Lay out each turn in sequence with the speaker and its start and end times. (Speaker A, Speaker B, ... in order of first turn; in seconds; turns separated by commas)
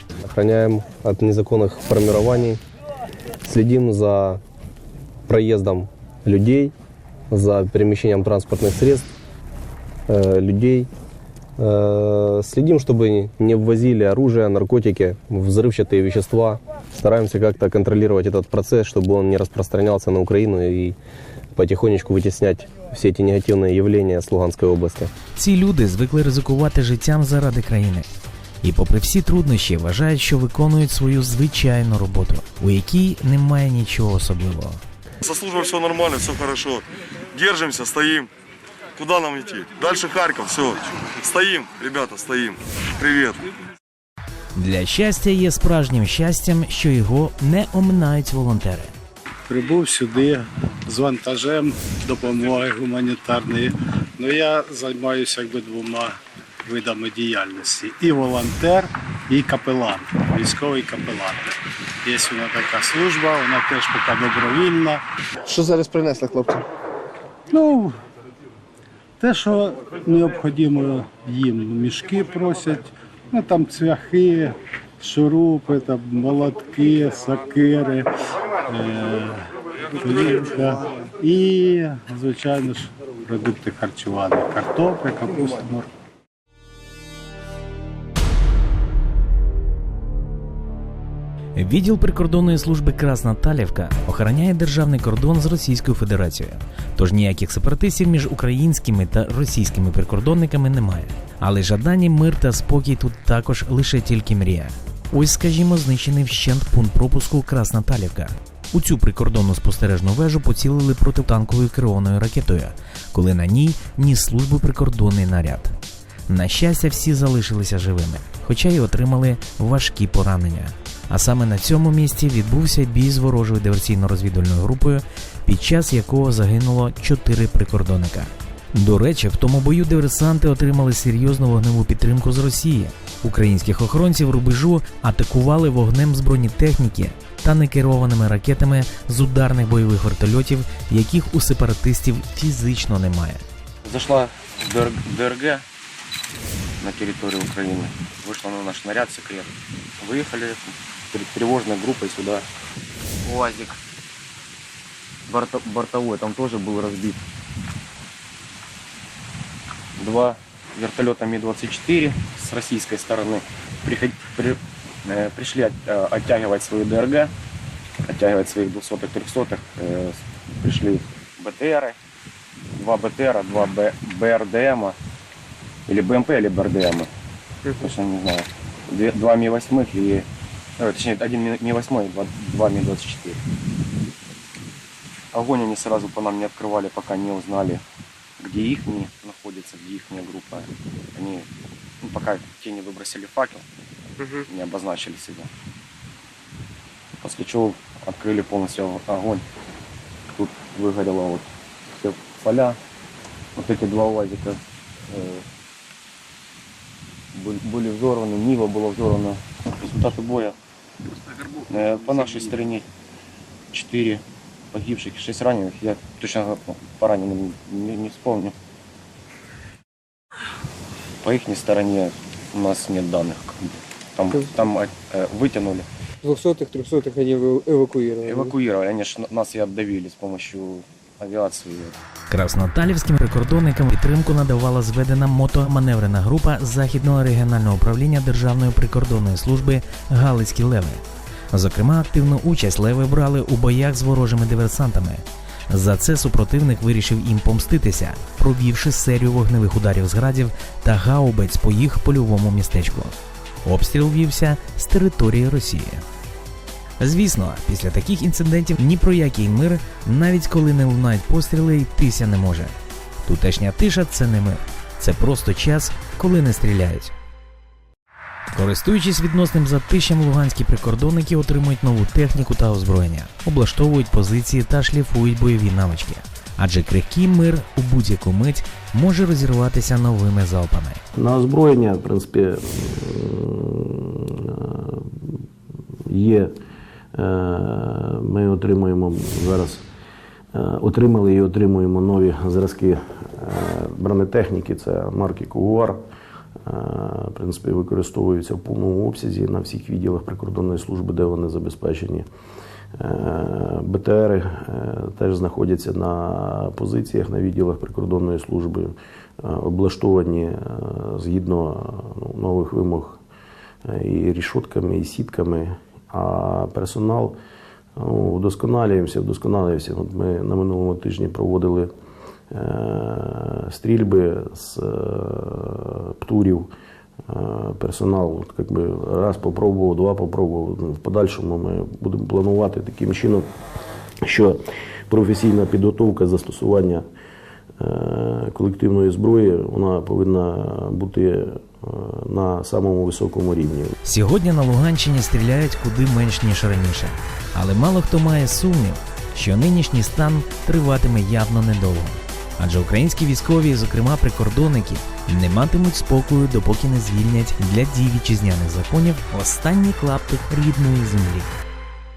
Speaker A: 0.2-2.6, Speaker A: 3.4-4.4, Speaker A: 5.3-6.7, Speaker A: 7.3-9.1, Speaker A: 10.1-10.9, Speaker A: 11.6-20.9, Speaker A: 21.5-25.1, Speaker B: 25.4-28.1, Speaker B: 28.6-34.8, Speaker C: 35.2-38.3, Speaker C: 39.0-43.4, Speaker B: 44.5-48.9, Speaker D: 49.5-61.5, Speaker D: 62.0-65.0, Speaker E: 65.5-66.6, Speaker D: 67.5-68.0, Speaker D: 69.2-78.1, Speaker D: 78.7-79.4, Speaker D: 80.0-85.9, Speaker B: 91.5-115.8, Speaker B: 116.3-143.4, Speaker F: 143.8-145.6, Speaker F: 146.8-152.5, Speaker F: 153.2-153.8, Speaker F: 155.3-157.2, Speaker F: 160.0-167.3, Speaker F: 168.1-171.9, Speaker F: 172.8-175.0, Speaker F: 175.9-177.1, Speaker F: 177.8-180.3, Speaker F: 180.8-183.4, Speaker F: 185.3-187.8, Speaker F: 188.4-191.5, Speaker F: 192.0-193.6, Speaker F: 194.4-195.5, Speaker F: 197.2-199.4, Speaker F: 200.3-202.8, Speaker F: 203.6-204.6, Speaker F: 205.1-205.4, Speaker F: 207.3-210.6, Speaker E: 211.6-212.5, Speaker F: 211.7-212.8, Speaker F: 213.7-218.5, Speaker F: 221.2-225.8, Speaker E: 226.2-228.5, Speaker F: 228.2-232.0, Speaker B: 232.3-256.0, Speaker B: 257.0-267.1, Speaker B: 268.5-281.0, Speaker G: 281.2-285.1, Speaker G: 286.1-286.5, Speaker G: 287.1-289.8, Speaker G: 290.5-296.0, Speaker G: 296.7-302.3, Speaker G: 303.0-313.2, Speaker G: 313.9-317.4, Speaker G: 318.0-321.9, Speaker G: 322.5-326.7, Speaker G: 327.3-333.5, Speaker G: 334.2-337.1, Speaker G: 337.8-343.9, Speaker B: 344.0-361.5